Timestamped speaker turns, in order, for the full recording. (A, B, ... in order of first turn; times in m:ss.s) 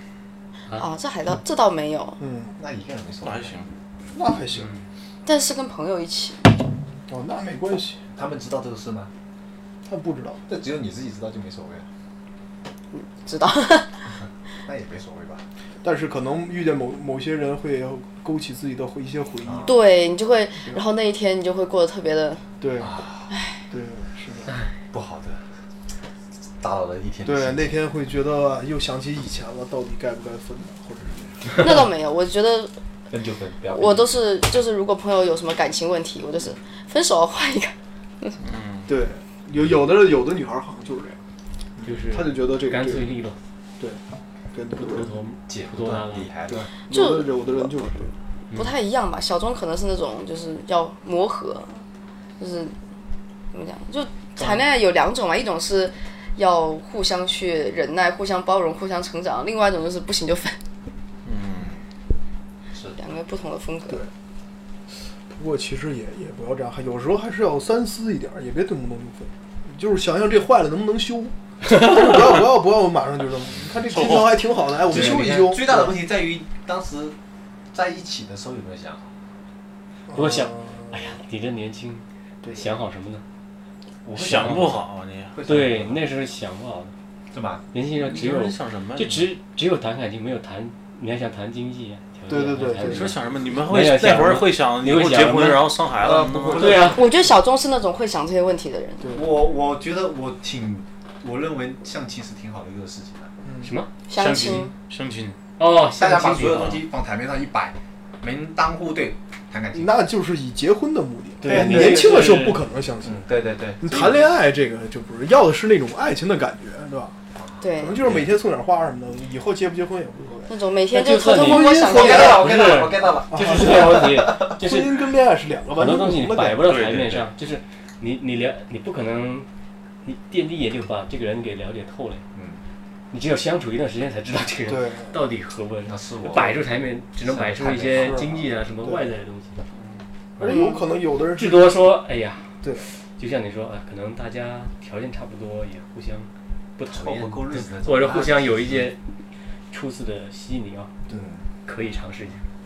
0:00.8-0:02.2 A
0:02.2-0:02.5 B
0:02.6-0:03.6 C
0:03.2-0:03.7 D
0:04.1-0:04.7 B
0:05.2-0:06.6 A
0:07.1-0:08.0 B
0:08.1-0:09.1 C
0:09.9-0:10.4 B
0:10.5-0:11.9 C
0:12.9-0:14.1 A
0:14.7-0:15.4 C
0:15.8-0:19.8 B
0:19.4-0:19.7 C
0:19.6-0:22.5 A
0:22.6-0:23.0 B
0:22.8-0:23.3 C
0:23.3-0:23.6 A
0:23.7-0:24.5 B
0:24.9-0:25.4 C
0:26.6-0:27.8 C
0:27.2-0:31.7 B
0:31.5-0:32.7 A
0:33.1-0:34.2 C
0:33.7-0:38.4 A
0:38.4-0:38.9 D
0:38.9-0:41.2 B
0:41.8-0:43.2 B
0:41.8-0:43.4 E
0:44.5-0:45.2 B
0:44.8-0:46.3 E
0:45.5-0:46.7 C
0:46.5-0:48.1 B
0:46.9-0:47.7 A
0:48.5-0:51.8 A
0:52.4-0:52.8 A
0:53.5-1:00.6 A
1:01.3-1:01.7 D
1:02.7-1:03.0 C
1:03.0-1:04.0 A
1:05.3-1:16.0 B
1:13.9-1:14.4 D
1:14.9-1:17.2 C
1:14.9-1:15.2 E
1:17.7-1:19.1 C
1:20.1-1:20.8 B
1:20.1-1:23.2 E
1:24.0-1:26.0 C
1:24.2-1:25.4 D
1:25.5-1:26.9 E
1:27.3-1:27.6 C
1:27.7-1:35.7 E
1:28.0-1:29.3 D
1:32.3-1:33.1 B
1:32.8-1:36.8 D
1:36.0-1:37.0 B
1:36.6-1:37.0 E
1:36.9-1:39.1 A
1:39.0-1:39.3 B
1:39.1-1:43.3 C
1:43.4-1:43.7 B
1:43.6-1:44.6 E
1:44.1-1:44.7 A
1:44.2-1:45.4 D
1:45.6-1:46.8 E
1:46.0-1:50.0 C
1:46.5-1:46.8 D
1:49.7-1:53.3 B
1:51.4-1:52.6 E
1:51.4-1:52.4 C
1:53.0-1:54.1 C
1:53.8-1:57.2 B
1:57.4-1:58.3 C
1:57.6-1:58.0 A
1:57.8-2:00.5 B
2:00.5-2:02.5 A
2:00.9-2:05.1 E
2:01.2-2:02.3 B
2:01.8-2:04.5 C
2:03.3-2:06.7 B
2:05.8-2:09.5 E
2:06.6-2:07.3 D
2:10.0-2:12.2 E
2:12.4-2:12.6 C
2:13.1-2:19.6 E
2:14.7-2:15.2 B
2:15.9-2:16.6 C
2:17.2-2:18.4 C
2:17.9-2:18.3 B
2:20.4-2:29.0 E
2:20.4-2:21.8 B
2:20.5-2:20.8 A
2:26.9-2:28.9 C
2:29.7-2:30.9 E
2:31.1-2:31.4 C
2:31.6-2:32.4 E